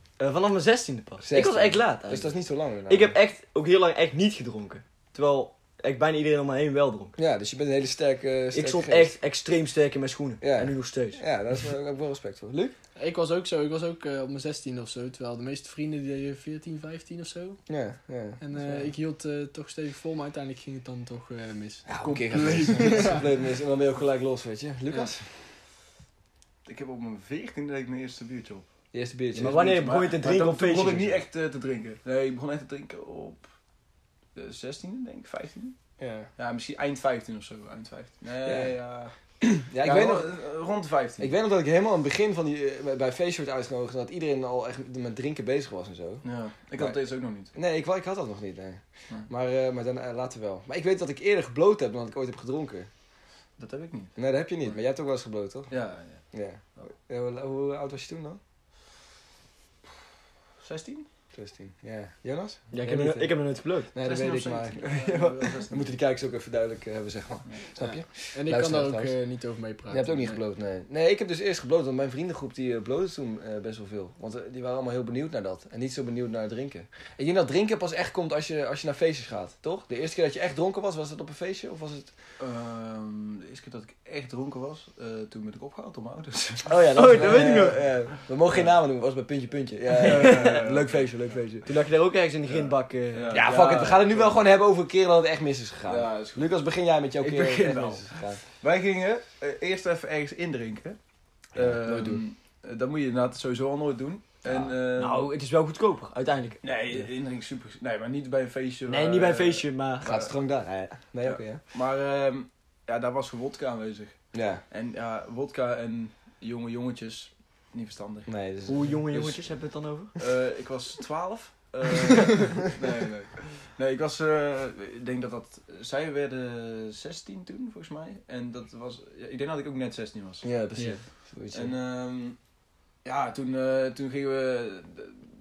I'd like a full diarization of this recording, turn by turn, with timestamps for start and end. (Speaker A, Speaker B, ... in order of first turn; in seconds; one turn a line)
Speaker A: 0.2-2.3
Speaker B: 1.2-3.2
Speaker A: 2.9-7.2
Speaker B: 7.2-9.1
Speaker A: 8.5-11.2
Speaker B: 10.4-12.8
Speaker C: 13.0-17.6
Speaker B: 17.7-18.4
Speaker C: 18.4-21.9
Speaker D: 18.6-18.9
Speaker B: 21.9-25.3
Speaker D: 22.0-23.2
Speaker C: 22.8-23.2
Speaker D: 26.7-28.7
Speaker B: 28.9-29.7
Speaker A: 29.3-31.2
Speaker D: 29.5-33.4
Speaker D: 34.4-35.8
Speaker B: 36.0-36.3
Speaker D: 36.4-39.1
Speaker B: 38.5-38.7
Speaker B: 39.4-40.3
Speaker D: 39.8-41.3
Speaker B: 41.2-46.2
Speaker D: 46.2-47.5
Speaker B: 47.5-52.9
Speaker D: 53.6-54.1
Speaker B: 54.2-55.7
Speaker D: 55.7-56.2
Speaker B: 56.3-58.4
Speaker D: 60.6-61.1
Speaker B: 61.4-63.4
Speaker A: 62.7-63.9
Speaker B: 63.9-69.2
Speaker D: 64.0-66.0
Speaker C: 67.8-70.4
Speaker B: 69.9-82.1
Speaker D: 82.4-86.7
Speaker A: 86.7-87.8
Speaker B: 86.9-91.7
Speaker A: 89.9-90.6
Speaker D: 90.0-91.1
Speaker A: 91.7-93.5
Speaker D: 92.5-94.3
Speaker B: 93.3-98.4
Speaker D: 95.9-96.5
Speaker D: 97.2-98.0
Speaker D: 98.6-101.0
Speaker D: 101.5-105.3
Speaker B: 101.6-102.2
Speaker A: 104.5-106.6
Speaker D: 106.6-110.3
Speaker A: 108.9-110.2
Speaker B: 110.0-111.6
Speaker D: 111.2-114.2
Speaker B: 114.3-114.6
Speaker D: 114.7-118.3
Speaker B: 118.3-118.8
Speaker A: 118.7-120.1
Speaker D: 119.1-119.4
Speaker D: 120.2-131.0
Speaker B: 130.4-131.7
Speaker D: 131.5-132.4
Speaker D: 133.0-135.2